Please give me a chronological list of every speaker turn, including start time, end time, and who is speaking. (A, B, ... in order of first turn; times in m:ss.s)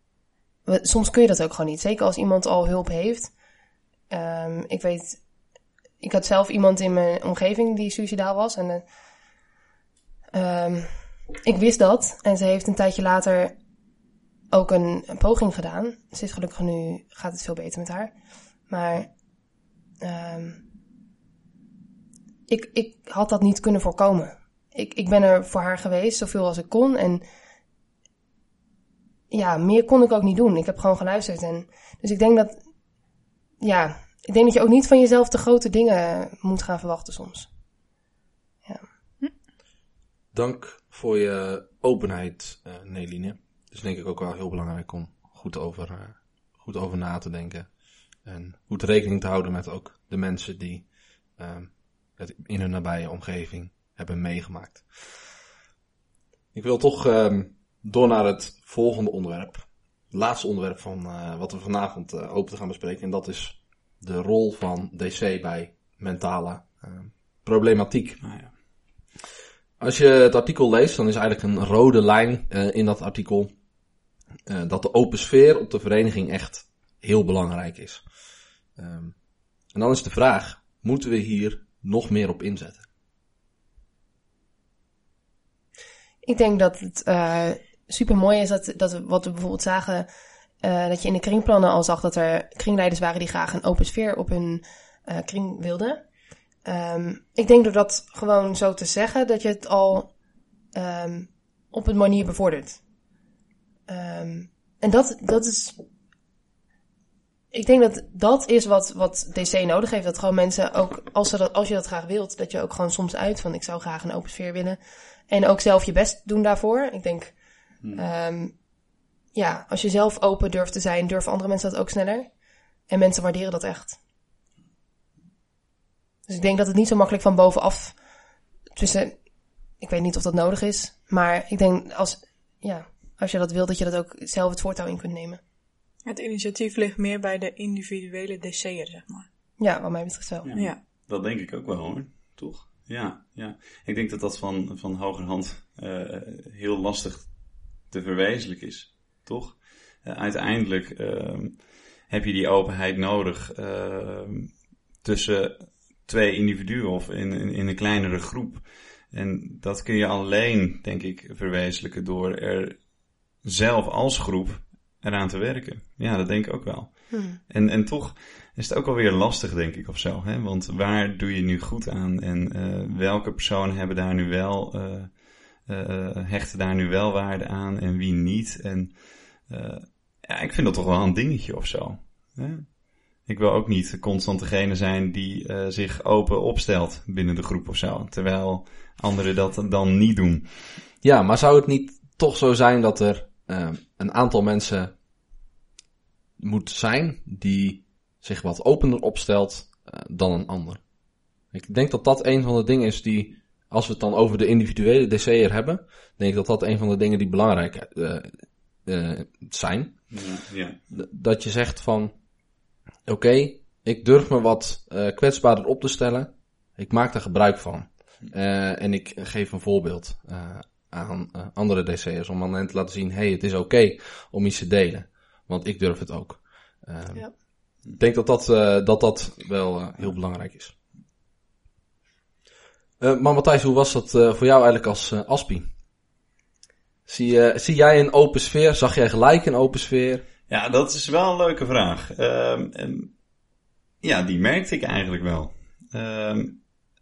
0:00.7-0:03.3 A
0:04.1-0:05.2 A
0:06.0-0:08.9 A
0:10.3-0:10.9 A
0:11.4-0:13.6 A
0:14.5-0:18.2 A
0:18.7-0:19.1 A
0:20.0-0:20.6 A
0:22.5-0:27.2 A
0:29.3-0:32.6 A
0:33.6-0:37.5 A
0:40.3-0:55.2 B
0:56.5-1:08.5 B
1:08.2-1:08.5 C
1:09.8-1:13.6 B
1:14.5-1:18.2 B
1:18.8-1:19.2 B
1:19.7-1:22.8 B
1:26.2-1:30.1 A
1:30.6-1:36.0 A
1:36.6-1:40.1 A
1:40.8-1:42.8 A
1:43.9-1:45.8 A
1:47.5-1:57.4 A
1:57.9-1:58.6 A
1:59.3-2:02.3 A
2:02.9-2:04.0 A
2:06.3-2:08.0 A
2:08.8-2:09.2 A
2:09.8-2:15.4 A
2:16.0-2:19.3 D
2:19.6-2:20.5 A
2:20.4-2:42.9 C
2:20.5-2:20.8 D
2:43.4-3:10.5 C
2:47.1-2:47.4 A
3:11.0-3:14.9 B
3:16.4-3:20.8 B
3:21.5-3:30.2 B
3:30.1-3:31.0 C
3:30.9-3:32.2 B
3:33.1-3:50.8 B
3:53.0-3:55.7 B
3:57.1-4:00.2 B
4:00.5-4:03.1 C
4:04.0-4:06.6 C